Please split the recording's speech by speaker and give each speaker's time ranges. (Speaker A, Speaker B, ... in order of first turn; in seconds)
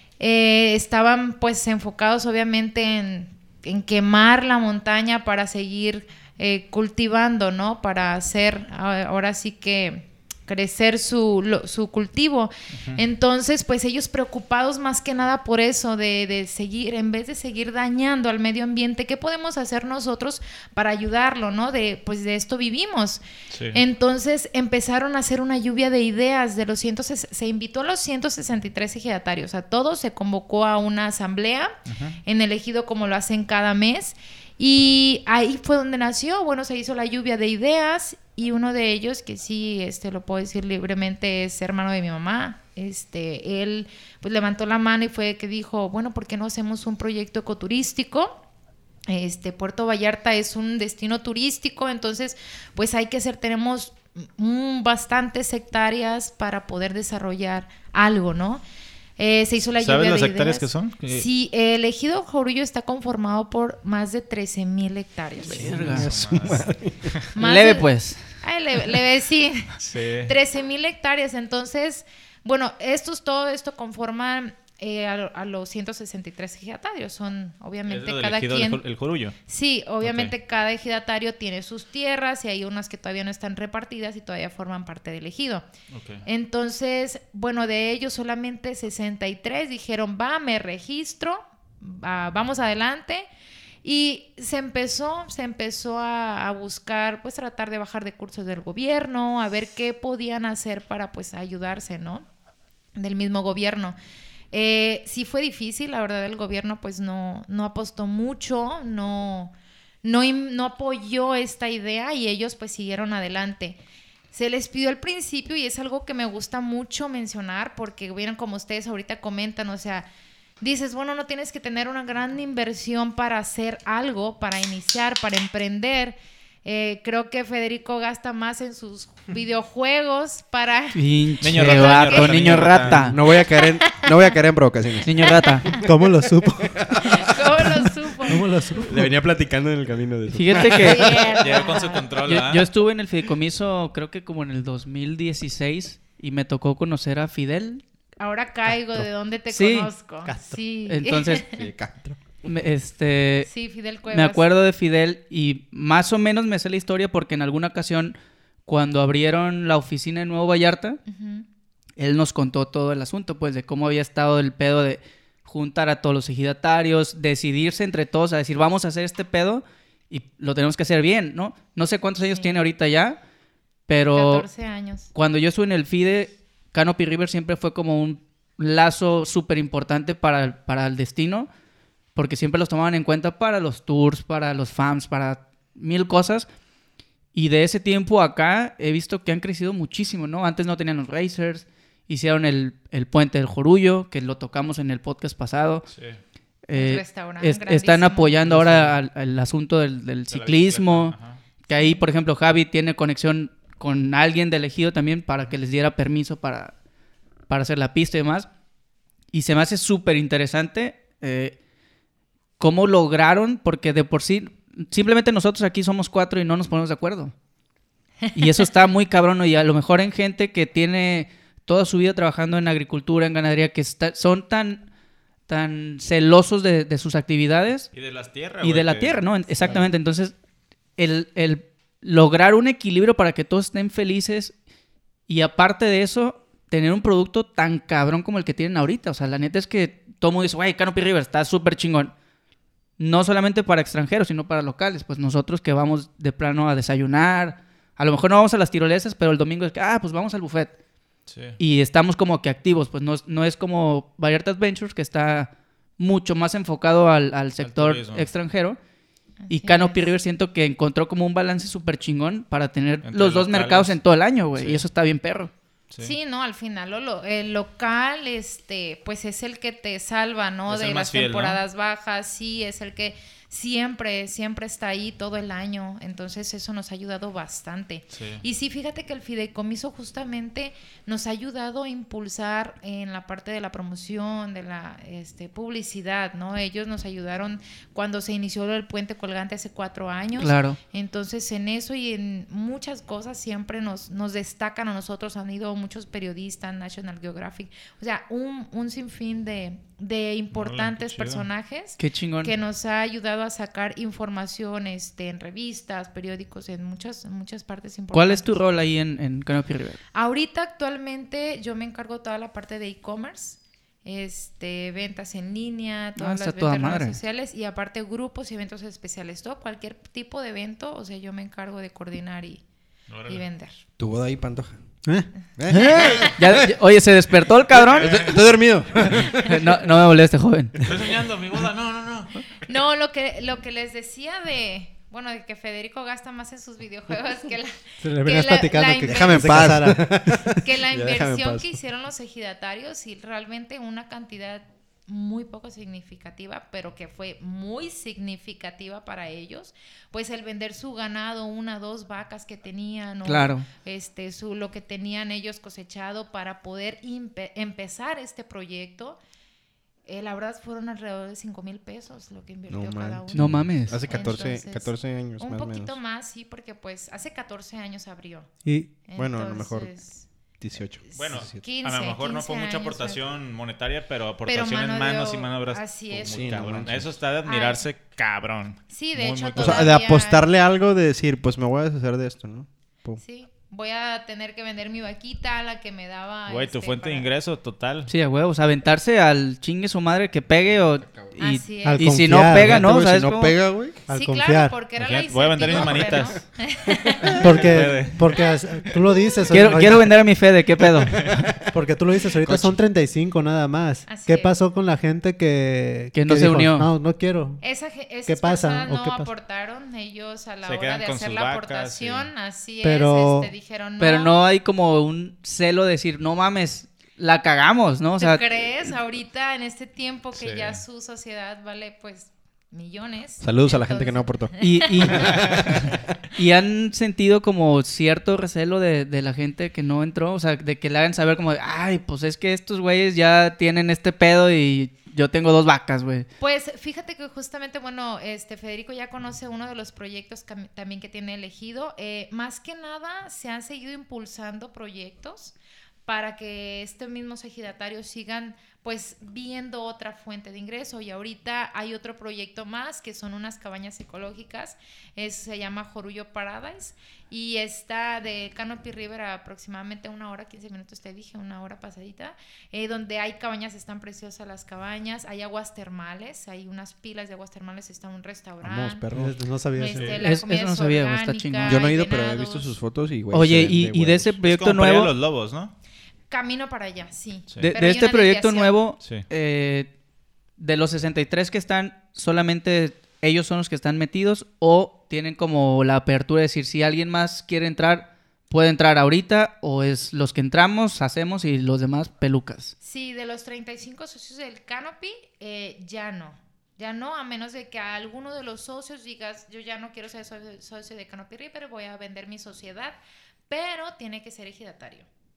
Speaker A: 0.2-31.7, 32.3-48.4, 49.1-58.6, 59.2-66.0, 67.3-78.8, 79.5-85.7, 86.2-93.3, 93.8-102.2, 103.0-104.0, 104.5-113.8, 114.3-120.1, 120.6-131.0, 131.6-132.8, 133.6-134.3, 135.4-135.9, 137.0-138.8, 140.5-142.1, 148.2-151.6, 153.5-154.5, 161.1-161.4, 172.3-172.6, 174.1-175.1, 196.7-198.5, 201.7-202.1, 259.5-260.1, 266.0-308.6, 310.1-322.6, 323.3-323.8, 332.7-339.7, 340.5-359.2, 360.1-368.5, 369.1-370.3, 371.1-373.2, 374.5-376.5, 377.4-377.9, 378.9-380.4, 383.2-387.3, 391.4-392.2, 394.1-397.5, 404.1-404.6, 407.6-414.4, 418.2-425.4, 436.4-445.6, 446.1-469.1, 469.7-472.8, 476.3-478.9, 492.8-503.0, 503.5-505.1
Speaker B: 12.8-13.0, 23.5-23.8, 31.9-32.2, 59.8-61.3, 65.7-67.3, 69.8-70.3, 77.9-79.4, 80.0-80.3, 85.9-86.2, 131.4-133.2, 141.4-142.7, 195.9-196.2, 200.3-201.4, 227.9-229.3, 251.3-251.6, 257.6-258.3, 263.0-264.0, 264.6-264.8, 270.7-271.6, 278.1-278.4, 300.5-301.5, 323.1-323.4, 328.0-328.4, 330.8-332.4, 371.2-379.9, 386.5-388.1, 395.0-396.5, 397.3-398.3, 401.1-401.5, 410.6-412.3, 420.4-420.8, 425.3-425.6, 469.9-470.2, 474.4-475.7, 479.0-479.2
Speaker C: 65.5-66.1, 67.4-68.2, 130.9-133.2, 135.1-135.7, 140.3-141.2, 142.2-147.8, 149.5-149.9, 150.9-151.4, 152.4-153.5, 154.1-161.0, 162.0-173.2, 173.9-174.5, 175.1-181.5, 182.2-186.5, 187.3-195.9, 196.7-201.2, 201.7-206.7, 207.5-208.5, 209.3-211.6, 212.6-217.3, 218.3-224.8, 225.5-227.9, 228.6-230.3, 231.0-234.6, 235.3-242.1, 243.0-250.7, 251.6-258.8, 259.5-265.5, 290.4-290.8, 302.0-302.5, 308.1-310.0, 316.2-317.2, 325.7-328.3, 329.3-330.8, 353.2-353.7, 363.3-364.0, 388.1-393.6, 399.5-401.3, 406.1-406.9, 414.0-418.4, 424.6-425.6, 426.4-436.3, 470.2-471.8, 473.3-475.1, 477.6-479.9, 480.6-492.7
Speaker D: 65.6-67.2, 133.0-135.8, 136.5-137.5, 138.8-141.6, 151.5-152.2, 324.0-324.8, 325.6-326.6, 327.8-329.6, 339.0-341.7, 362.7-366.0, 369.2-369.9, 370.6-371.6, 376.2-377.1, 379.6-383.2, 391.1-391.3, 392.4-394.1, 395.8-396.4, 401.0-401.7, 402.4-402.8, 423.4-424.6, 425.1-425.9, 468.6-469.3, 471.6-474.4
Speaker E: 135.8-136.8, 137.8-139.1, 150.2-150.6, 325.1-325.8, 338.0-340.5, 391.8-392.9, 394.1-394.7, 397.4-400.1, 401.7-407.6, 408.3-409.3, 412.8-413.5, 469.1-470.1